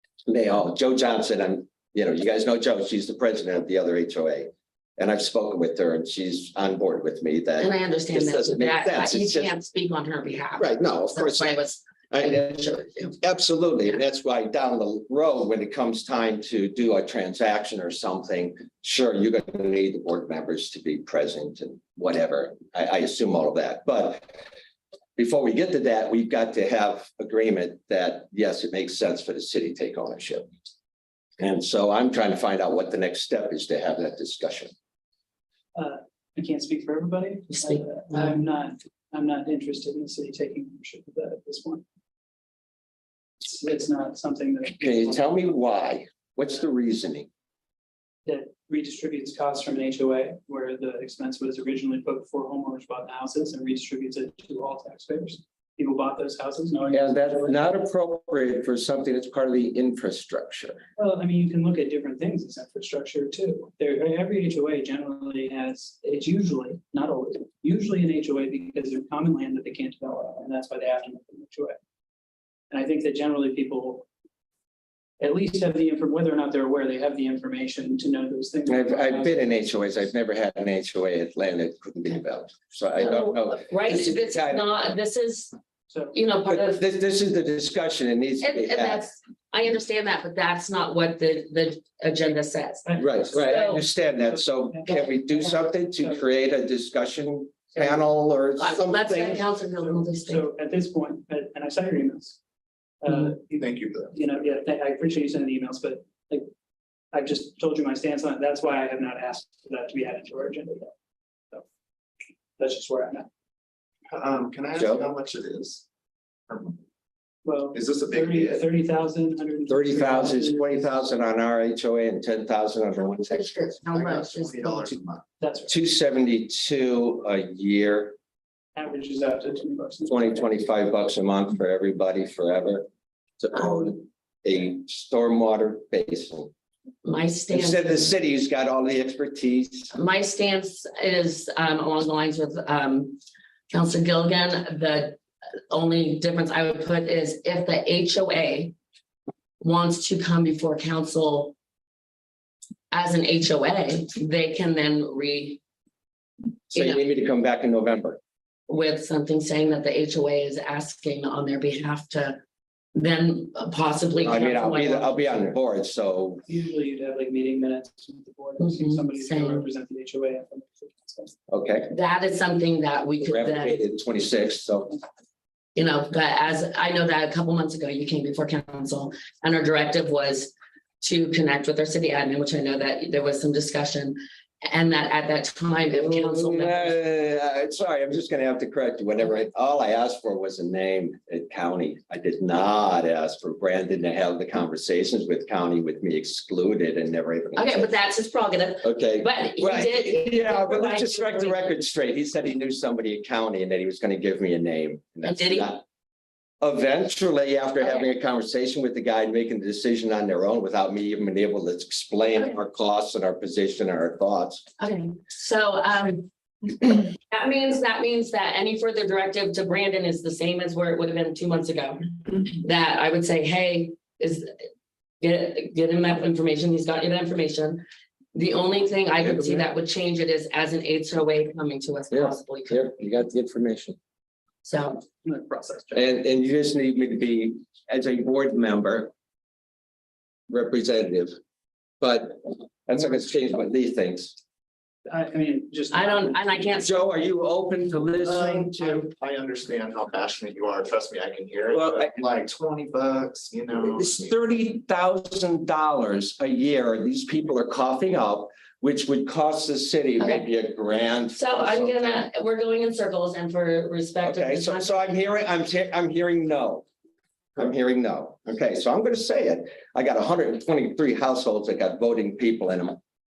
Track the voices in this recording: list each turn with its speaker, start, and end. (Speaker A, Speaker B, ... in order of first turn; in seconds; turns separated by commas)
Speaker A: 0.2-9.5, Speaker B: 7.6-13.2, Speaker A: 10.6-24.4, Speaker A: 25.2-30.5, Speaker A: 31.4-34.7, Speaker C: 35.7-41.8, Speaker B: 37.5-38.4, Speaker C: 43.4-45.4, Speaker A: 44.7-47.3, Speaker C: 48.2-57.6, Speaker A: 56.9-60.8, Speaker C: 61.0-71.8, Speaker C: 72.7-74.0, Speaker C: 75.2-79.5, Speaker A: 78.7-84.7, Speaker B: 83.0-85.5, Speaker C: 85.9-86.2, Speaker B: 86.1-86.8, Speaker A: 86.5-89.0, Speaker B: 88.4-93.8, Speaker C: 92.8-94.8, Speaker A: 93.0-99.4, Speaker B: 94.8-95.6, Speaker B: 98.6-100.5, Speaker C: 99.8-102.4, Speaker C: 103.0-106.5, Speaker D: 103.5-104.1, Speaker C: 107.1-110.9, Speaker C: 112.6-113.3, Speaker D: 114.1-115.8, Speaker A: 114.7-115.0, Speaker D: 116.5-116.8, Speaker C: 117.4-121.1, Speaker D: 117.7-118.6, Speaker A: 119.7-123.6, Speaker B: 123.0-124.9, Speaker D: 123.8-125.2, Speaker C: 125.4-125.7, Speaker A: 125.7-128.2, Speaker C: 128.7-130.5, Speaker A: 130.1-132.9, Speaker A: 133.4-136.5, Speaker B: 137.0-138.1, Speaker A: 137.5-139.9, Speaker B: 139.9-143.2, Speaker B: 143.7-148.7, Speaker B: 149.6-151.5, Speaker B: 152.9-155.6, Speaker A: 156.7-158.2, Speaker B: 156.7-157.0, Speaker B: 158.7-162.4, Speaker B: 162.9-165.5, Speaker A: 164.2-166.4, Speaker C: 166.4-171.4, Speaker B: 168.6-169.7, Speaker A: 171.5-171.9, Speaker B: 171.9-173.8, Speaker A: 173.2-174.9, Speaker B: 175.7-187.0, Speaker A: 185.9-197.9, Speaker B: 197.6-201.6, Speaker A: 198.8-205.8, Speaker B: 205.2-205.7, Speaker A: 206.6-214.6, Speaker B: 207.8-208.1, Speaker B: 214.8-224.5, Speaker B: 225.2-232.8, Speaker A: 229.2-229.7, Speaker A: 232.1-234.0, Speaker B: 234.6-235.0, Speaker C: 235.2-236.0, Speaker A: 235.9-239.1, Speaker A: 240.5-241.4, Speaker A: 242.0-244.4, Speaker C: 245.1-246.9, Speaker B: 245.9-247.0, Speaker A: 246.8-249.1, Speaker D: 248.2-254.3, Speaker A: 251.7-252.1, Speaker A: 253.8-262.2, Speaker B: 260.2-260.4, Speaker B: 261.3-265.1, Speaker A: 264.2-266.8, Speaker A: 267.6-273.0